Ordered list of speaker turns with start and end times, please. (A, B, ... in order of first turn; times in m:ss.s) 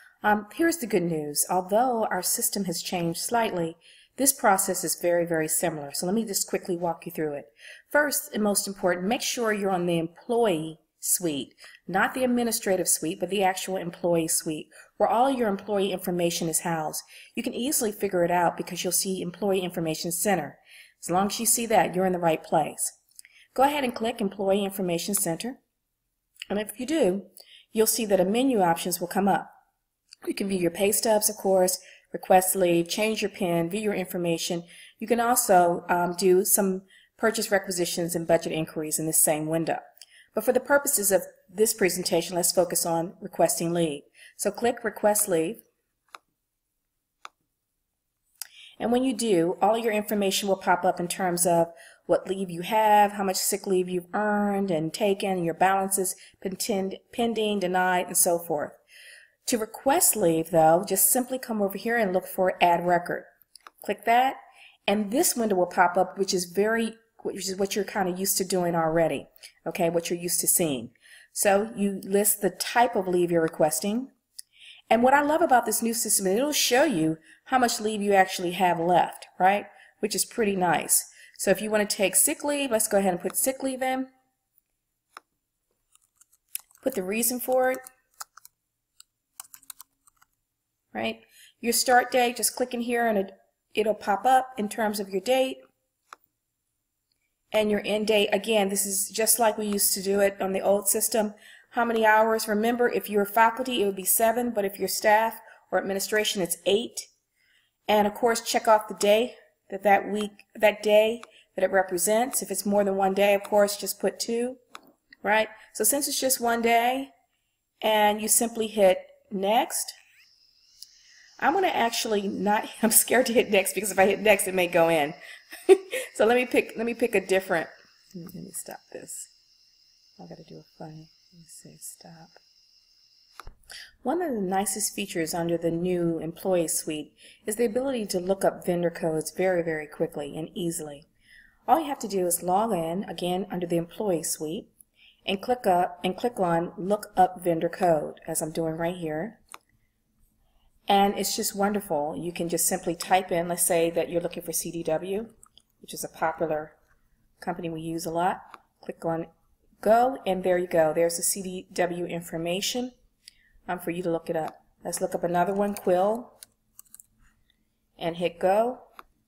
0:00.2-0:23.0 A
0:23.6-0:25.6 A
0:26.5-0:29.5 A
0:30.3-0:39.8 A
0:40.3-0:45.6 A
0:48.8-0:58.8 A
0:59.5-1:03.3 A
1:03.8-1:14.1 A
1:14.9-1:24.1 A
1:26.8-1:27.8 A
1:30.9-1:35.6 A
1:37.5-1:47.1 A
1:47.9-1:54.6 A
1:55.2-1:57.1 A
1:57.8-1:59.9 A
2:01.4-2:09.3 A
2:10.2-2:12.4 A
2:14.0-2:21.1 A
2:21.7-2:24.7 A
2:25.3-2:29.4 A
2:30.9-2:36.8 A
2:37.4-2:39.3 A
2:39.8-2:42.9 A
2:43.7-2:46.3 A
2:48.0-2:48.8 A